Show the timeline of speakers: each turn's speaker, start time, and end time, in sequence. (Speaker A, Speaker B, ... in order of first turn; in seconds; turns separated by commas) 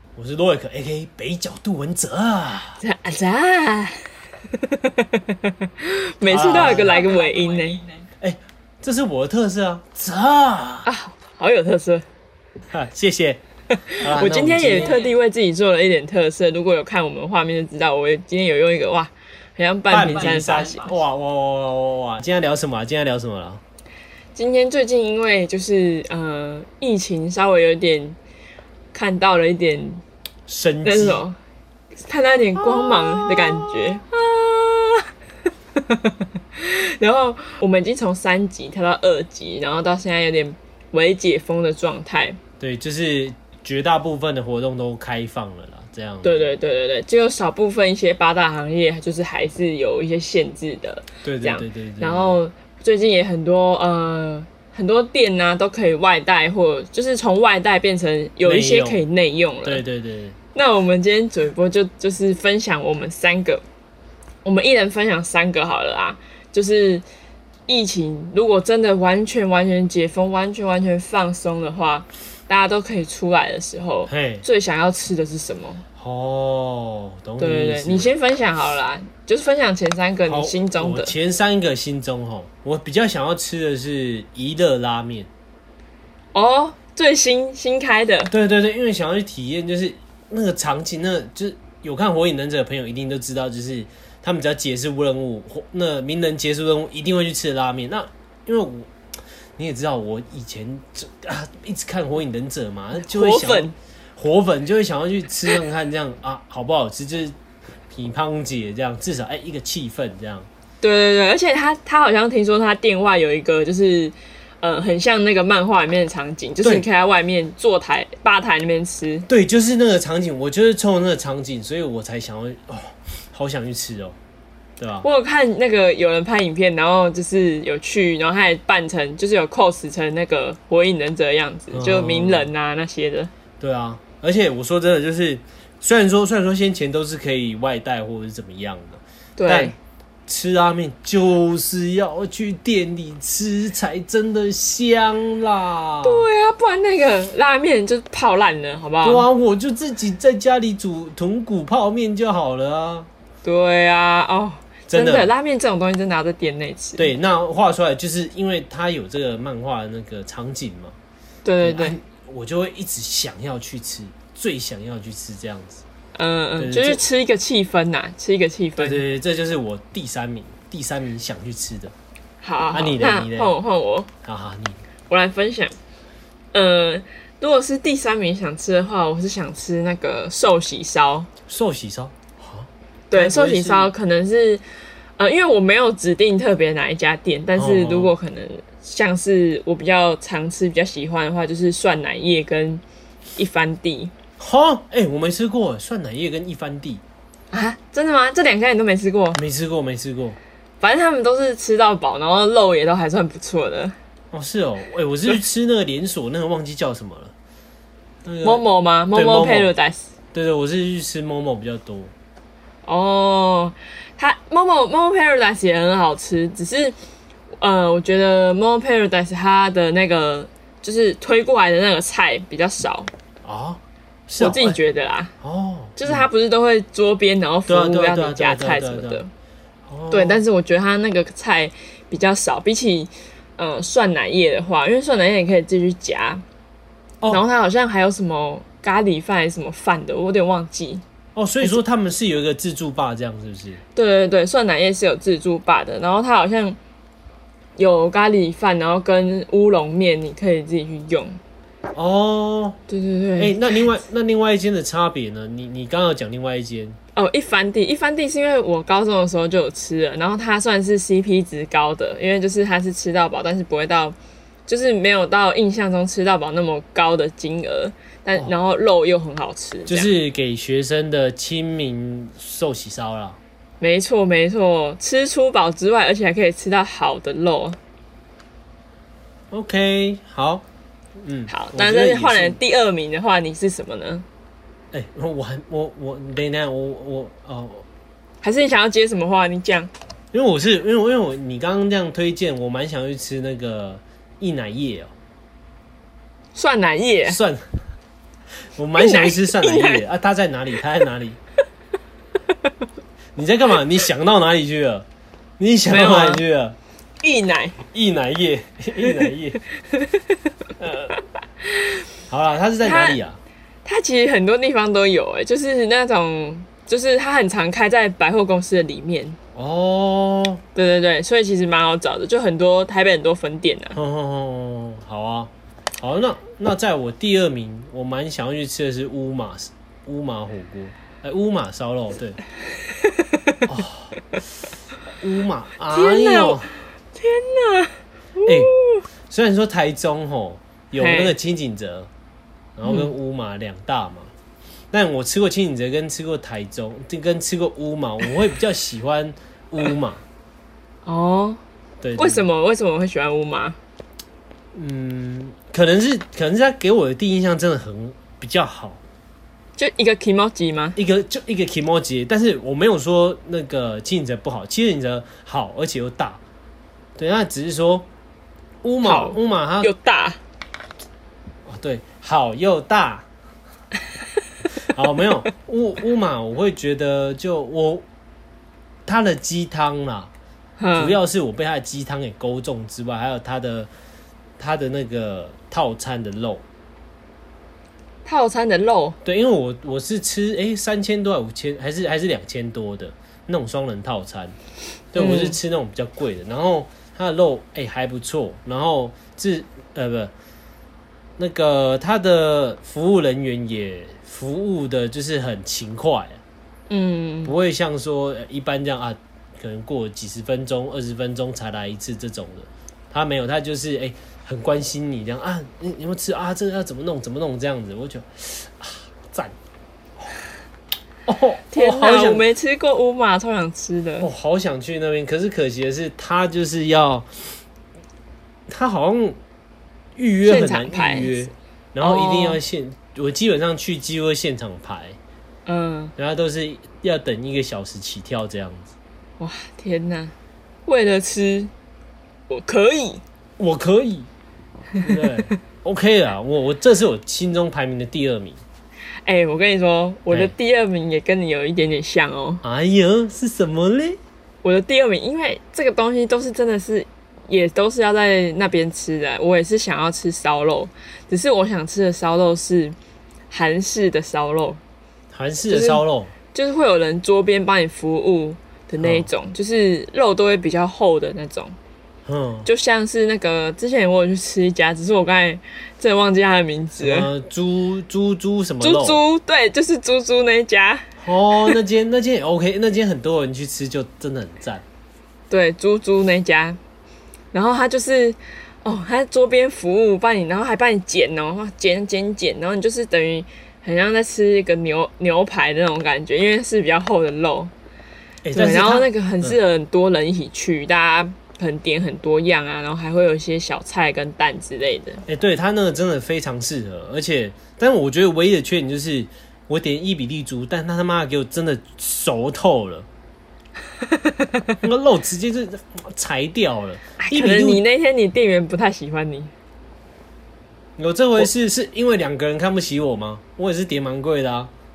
Speaker A: 0.2-2.8, Speaker B: 2.8-7.8, Speaker A: 6.3-7.0, Speaker A: 8.2-10.9, Speaker B: 10.8-12.1, Speaker A: 12.7-13.4, Speaker B: 13.7-20.9, Speaker A: 14.0-15.0, Speaker A: 19.9-23.6, Speaker B: 24.4-28.2, Speaker B: 28.9-30.0, Speaker A: 30.5-31.2, Speaker B: 30.9-31.4, Speaker B: 32.0-35.1, Speaker A: 32.6-34.0, Speaker B: 35.8-42.4, Speaker A: 42.6-46.5, Speaker B: 46.2-59.8, Speaker A: 51.2-52.4, Speaker A: 58.4-59.0, Speaker A: 59.6-60.4, Speaker B: 60.5-63.6, Speaker B: 64.4-67.0, Speaker B: 67.7-75.8, Speaker A: 74.1-74.5, Speaker A: 76.0-78.1, Speaker B: 77.4-81.1, Speaker A: 80.3-85.3, Speaker B: 86.3-88.3, Speaker A: 88.3-98.9, Speaker A: 99.6-107.4, Speaker B: 103.0-103.7, Speaker A: 107.9-110.5, Speaker B: 110.8-119.3, Speaker A: 119.3-124.2, Speaker A: 124.8-125.1, Speaker B: 125.0-133.3, Speaker A: 131.7-132.5, Speaker A: 133.6-139.8, Speaker B: 139.4-139.8, Speaker A: 140.3-146.3, Speaker B: 146.0-149.3, Speaker A: 149.0-153.1, Speaker B: 153.4-157.1, Speaker A: 154.9-155.3, Speaker A: 157.0-160.9, Speaker B: 161.4-162.0, Speaker A: 161.6-165.8, Speaker B: 166.2-169.0, Speaker A: 166.6-167.0, Speaker A: 168.8-171.9, Speaker B: 172.4-174.1, Speaker A: 172.7-173.5, Speaker A: 174.2-174.8, Speaker B: 175.1-175.8, Speaker B: 176.5-181.3, Speaker A: 181.5-183.9, Speaker B: 183.1-184.6, Speaker B: 185.2-192.8, Speaker A: 187.6-188.1, Speaker B: 193.4-194.1, Speaker A: 194.4-197.0, Speaker B: 197.5-199.4, Speaker A: 199.3-200.4, Speaker B: 200.8-203.9, Speaker A: 204.3-207.3, Speaker A: 208.2-209.7, Speaker B: 208.4-210.1, Speaker A: 210.3-212.1, Speaker B: 212.8-216.9, Speaker B: 217.6-223.1, Speaker A: 223.4-224.8, Speaker B: 224.4-225.3, Speaker A: 225.4-226.3, Speaker B: 226.0-229.3, Speaker A: 227.7-229.2, Speaker A: 229.9-230.4, Speaker B: 230.1-236.4, Speaker B: 237.3-241.0, Speaker A: 241.4-243.8, Speaker B: 243.9-246.8, Speaker B: 247.8-251.4, Speaker A: 251.9-252.8, Speaker B: 252.9-253.8, Speaker A: 253.4-257.0, Speaker B: 257.1-264.2, Speaker B: 264.7-270.1, Speaker A: 269.9-273.4, Speaker B: 273.8-277.8, Speaker A: 279.5-280.6, Speaker A: 281.2-282.6, Speaker B: 281.5-284.2, Speaker A: 284.9-287.9, Speaker B: 288.4-289.9, Speaker A: 290.3-295.1, Speaker B: 296.6-297.4, Speaker A: 297.3-297.7, Speaker A: 298.8-301.4, Speaker B: 299.0-300.0, Speaker A: 303.4-305.1, Speaker A: 305.6-306.8, Speaker B: 305.9-306.4, Speaker B: 307.2-307.8, Speaker A: 307.9-309.6, Speaker A: 310.8-311.1, Speaker B: 311.6-312.0, Speaker A: 312.3-313.4, Speaker B: 312.8-313.2, Speaker B: 313.9-319.4, Speaker A: 319.6-320.6, Speaker B: 320.8-324.0, Speaker A: 323.9-332.4, Speaker B: 333.2-333.6, Speaker A: 333.7-334.1, Speaker A: 335.2-336.7, Speaker B: 335.9-339.0, Speaker A: 338.4-338.7, Speaker A: 339.3-342.1, Speaker B: 341.0-341.3, Speaker A: 342.8-344.3, Speaker B: 342.9-343.1, Speaker A: 344.9-350.2, Speaker B: 351.1-351.6, Speaker A: 352.0-352.5, Speaker B: 352.2-353.8, Speaker A: 354.7-359.0, Speaker B: 359.8-361.0, Speaker A: 361.0-366.4, Speaker A: 367.2-368.1, Speaker A: 368.8-369.9, Speaker B: 369.0-370.4, Speaker A: 371.7-373.3, Speaker A: 374.9-378.1, Speaker A: 379.1-380.3, Speaker B: 380.8-381.2, Speaker A: 380.9-383.9, Speaker A: 384.6-386.6, Speaker B: 388.2-389.2, Speaker A: 389.2-394.6, Speaker A: 395.1-400.3, Speaker B: 395.2-395.6, Speaker A: 401.4-406.4, Speaker B: 406.9-407.5, Speaker A: 407.4-419.6, Speaker A: 421.3-422.4, Speaker B: 421.7-424.3, Speaker A: 424.2-427.4, Speaker A: 428.7-429.4, Speaker A: 430.2-435.2, Speaker B: 430.4-431.5, Speaker B: 432.0-432.6, Speaker B: 435.7-436.1, Speaker A: 436.2-438.9, Speaker B: 439.4-440.3, Speaker B: 440.9-441.7, Speaker B: 442.5-443.2, Speaker A: 443.6-444.3, Speaker A: 445.0-448.6, Speaker B: 449.3-452.6, Speaker A: 452.6-454.2, Speaker B: 454.6-463.0, Speaker B: 463.5-464.8, Speaker A: 465.3-466.3, Speaker B: 465.7-471.8, Speaker A: 469.0-469.3, Speaker A: 472.3-472.7, Speaker B: 472.7-477.3, Speaker A: 476.9-479.2, Speaker B: 478.8-481.8, Speaker A: 481.2-484.8, Speaker B: 485.5-486.8, Speaker B: 487.5-497.7, Speaker A: 498.4-499.6, Speaker B: 498.5-505.2, Speaker A: 505.3-513.1, Speaker B: 514.1-514.8, Speaker A: 514.8-517.8, Speaker B: 517.2-519.5, Speaker A: 521.0-524.7